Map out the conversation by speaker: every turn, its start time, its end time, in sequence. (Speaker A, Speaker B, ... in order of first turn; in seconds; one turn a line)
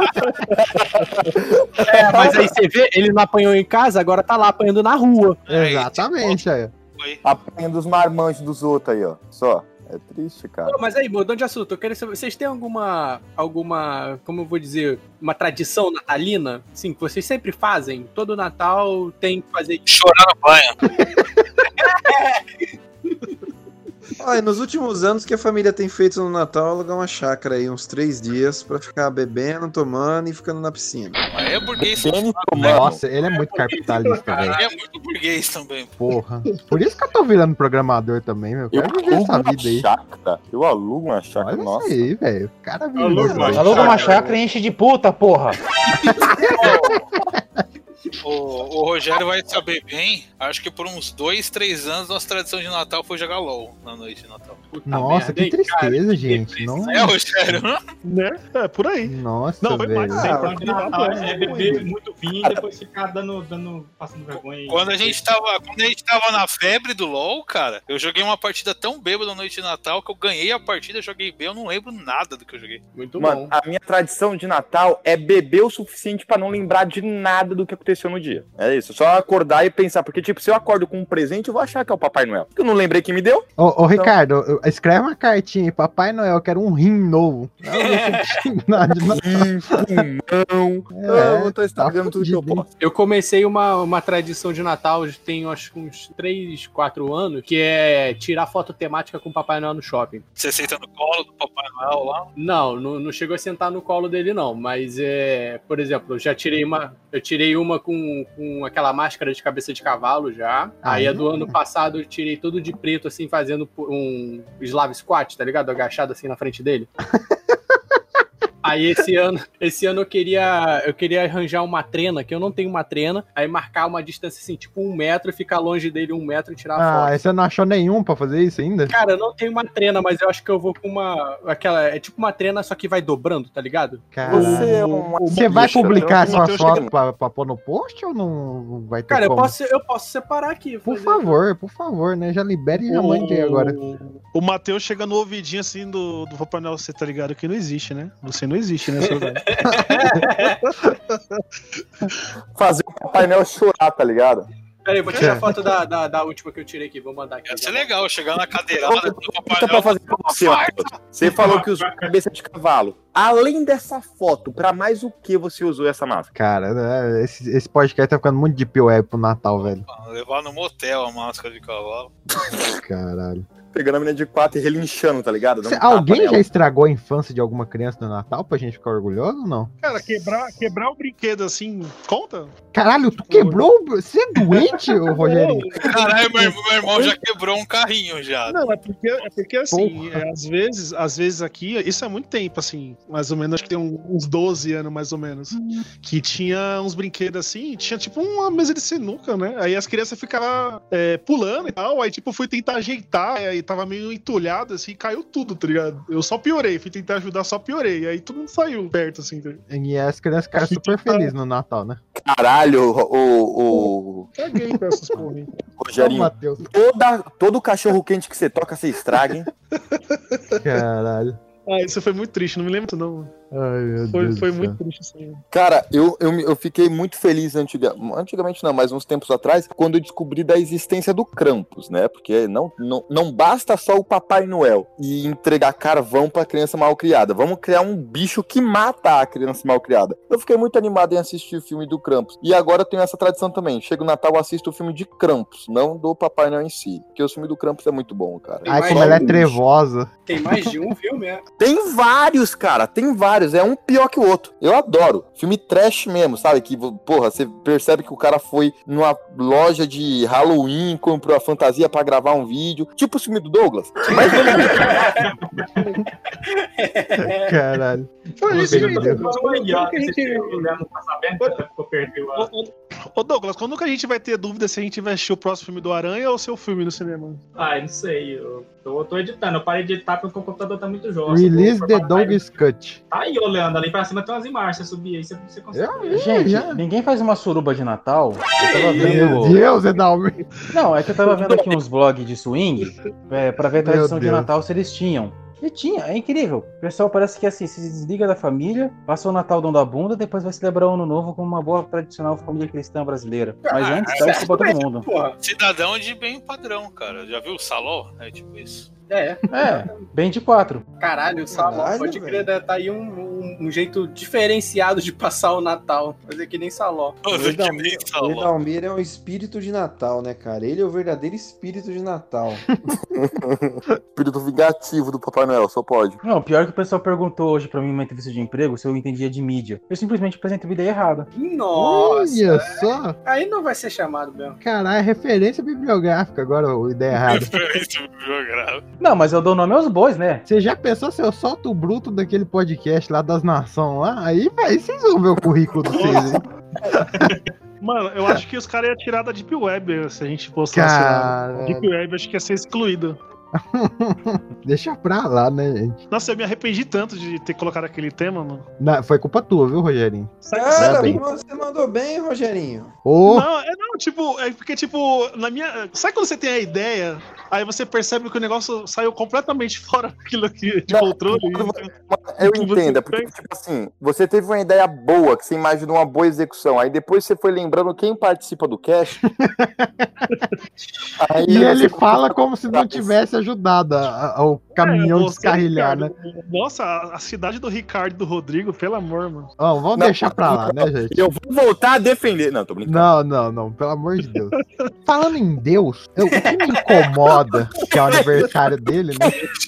Speaker A: 0.5-2.4
Speaker B: 1.8-5.4
Speaker C: 5.5-7.2
Speaker D: 5.5-6.7
Speaker A: 7.2-10.8
Speaker B: 10.7-19.9
Speaker C: 19.9-20.8
Speaker B: 21.8-23.1
Speaker E: 24.2-31.2
Speaker C: 31.3-32.8
Speaker A: 31.8-33.0
Speaker D: 32.6-34.6
Speaker B: 33.2-34.6
Speaker C: 34.5-35.9
Speaker D: 36.0-39.9
Speaker A: 38.7-42.0
Speaker D: 41.4-44.2
Speaker B: 43.0-44.4
Speaker F: 43.2-43.7
Speaker G: 43.5-45.6
Speaker B: 46.2-46.6
Speaker D: 46.5-46.8
Speaker C: 46.6-47.1
Speaker C: 48.2-54.6
Speaker B: 54.7-57.1
Speaker D: 54.9-57.6
Speaker C: 56.8-57.8
Speaker F: 58.0-61.9
Speaker D: 59.0-60.4
Speaker E: 60.1-61.1
Speaker H: 60.3-65.2
Speaker C: 64.7-72.8
Speaker B: 73.0-73.5
Speaker A: 73.2-84.1
Speaker D: 83.6-90.0
Speaker B: 87.7-88.4
Speaker A: 89.1-92.7
Speaker D: 90.9-92.7
Speaker B: 92.8-100.2
Speaker C: 100.4-102.3
Speaker B: 102.4-116.9
Speaker D: 110.8-111.5
Speaker B: 118.6-127.2
Speaker D: 126.8-128.9
Speaker B: 128.9-134.2
Speaker D: 134.1-134.8
Speaker A: 134.2-136.9
Speaker F: 134.3-136.9
Speaker D: 135.3-139.6
Speaker B: 139.1-141.4
Speaker D: 140.9-143.8
Speaker F: 142.8-151.4
Speaker B: 149.5-150.6
Speaker A: 152.5-154.5
Speaker B: 154.8-157.9
Speaker D: 155.1-155.5
Speaker C: 157.5-161.0
Speaker A: 158.8-166.3
Speaker H: 161.2-162.1
Speaker D: 166.3-169.8
Speaker C: 169.6-172.1
Speaker D: 172.6-173.4
Speaker A: 173.7-176.5
Speaker D: 175.6-179.7
Speaker F: 179.8-182.5
Speaker D: 182.7-186.5
Speaker F: 183.2-183.7
Speaker F: 184.4-186.1
Speaker C: 185.8-188.6
Speaker F: 188.5-209.6
Speaker D: 189.7-190.2
Speaker D: 209.7-212.0
Speaker F: 210.6-211.3
Speaker A: 212.2-214.3
Speaker F: 214.3-215.5
Speaker A: 215.7-219.5
Speaker D: 216.0-216.7
Speaker F: 219.8-220.7
Speaker D: 220.6-221.4
Speaker F: 221.7-223.3
Speaker D: 223.5-224.8
Speaker F: 224.1-225.4
Speaker A: 225.5-249.6
Speaker B: 248.7-249.4
Speaker D: 248.7-250.1
Speaker B: 250.3-251.4
Speaker A: 251.6-264.9
Speaker B: 264.1-265.1
Speaker H: 264.6-265.3
Speaker B: 266.4-267.6
Speaker D: 267.2-269.3
Speaker F: 268.4-270.7
Speaker H: 268.5-272.5
Speaker F: 272.4-277.4
Speaker H: 277.6-282.4
Speaker D: 281.3-283.0
Speaker H: 283.1-286.2
Speaker D: 285.7-286.8
Speaker G: 286.1-289.6
Speaker B: 288.8-289.0
Speaker D: 288.9-290.4
Speaker G: 290.7-305.1
Speaker A: 291.4-291.8
Speaker D: 293.8-294.5
Speaker B: 303.7-305.4
Speaker C: 303.8-304.4
Speaker C: 305.4-308.9
Speaker B: 309.1-309.4
Speaker G: 309.5-310.9
Speaker B: 311.0-317.2
Speaker E: 311.5-312.5
Speaker C: 317.2-318.5
Speaker E: 317.3-322.7
Speaker A: 323.4-326.2
Speaker G: 326.2-331.3
Speaker B: 331.4-334.6
Speaker D: 331.8-333.2
Speaker D: 334.6-337.5
Speaker C: 337.2-338.8
Speaker G: 339.0-340.4
Speaker D: 340.5-346.4
Speaker F: 345.9-346.4
Speaker F: 347.8-353.2
Speaker D: 350.7-351.9
Speaker D: 353.6-356.0
Speaker F: 356.1-358.7
Speaker D: 358.8-361.2
Speaker F: 360.4-361.3
Speaker E: 360.5-362.9
Speaker D: 363.1-363.5
Speaker F: 363.2-373.3
Speaker A: 370.9-379.2
Speaker D: 379.4-380.4
Speaker A: 381.2-383.1
Speaker D: 381.4-386.1
Speaker F: 384.8-389.5
Speaker D: 389.6-391.2
Speaker A: 389.9-393.1
Speaker D: 392.9-399.4
Speaker F: 394.5-394.9
Speaker B: 396.3-396.9
Speaker A: 398.1-398.5